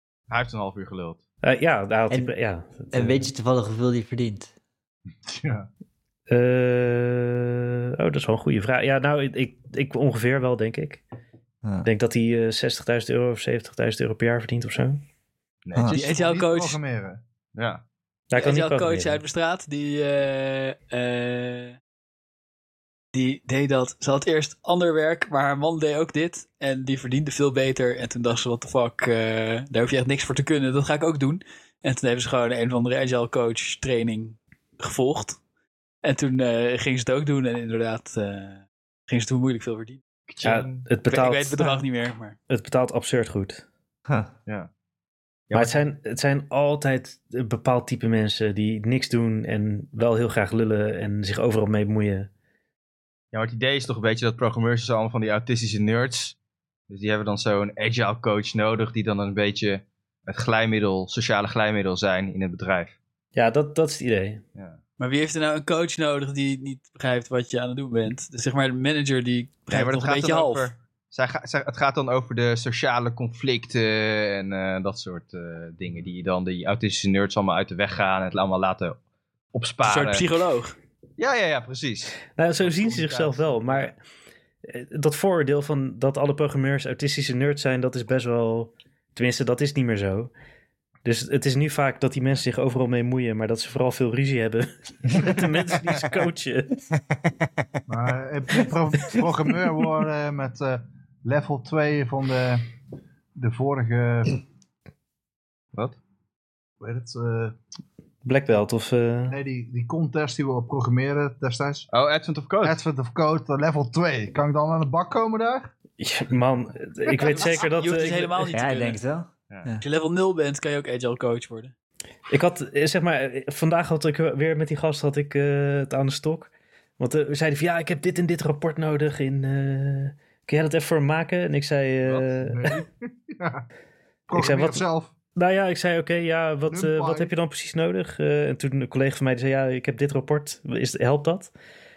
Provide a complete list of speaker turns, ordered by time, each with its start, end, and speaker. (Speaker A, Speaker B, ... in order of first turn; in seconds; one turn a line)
Speaker A: 0.3-1.2
Speaker B: 1.4-3.3
Speaker C: 2.9-4.5
Speaker D: 5.2-5.7
Speaker B: 6.3-11.0
Speaker C: 11.6-11.9
Speaker B: 11.8-15.0
Speaker A: 15.7-16.0
Speaker D: 15.9-17.2
Speaker E: 15.9-16.8
Speaker A: 17.6-17.8
Speaker B: 18.3-19.2
Speaker E: 18.4-21.8
Speaker E: 23.1-35.4
Speaker E: 36.0-40.0
Speaker A: 40.3-40.9
Speaker B: 40.4-41.8
Speaker E: 41.1-42.4
Speaker B: 42.5-43.6
Speaker A: 45.5-45.8
Speaker B: 45.5-52.3
Speaker A: 53.3-56.4
Speaker A: 56.9-63.0
Speaker B: 63.4-64.4
Speaker E: 65.0-70.7
Speaker A: 69.7-79.0
Speaker A: 79.5-80.3
Speaker E: 79.8-80.8
Speaker A: 81.2-83.9
Speaker B: 82.3-84.0
Speaker B: 84.7-90.3
Speaker B: 91.0-96.8
Speaker D: 97.9-102.7
Speaker D: 103.4-104.4
Speaker D: 106.8-107.6
Speaker B: 108.2-109.4
Speaker D: 109.3-111.9
Speaker A: 111.9-112.8
Speaker D: 112.6-115.7
Speaker B: 116.0-118.5
Speaker E: 117.3-119.0
Speaker C: 118.5-119.8
Speaker E: 119.8-121.7
Speaker B: 122.3-132.8
Speaker D: 132.6-133.6
Speaker D: 134.3-135.1
Speaker B: 134.3-141.5
Speaker D: 136.7-137.3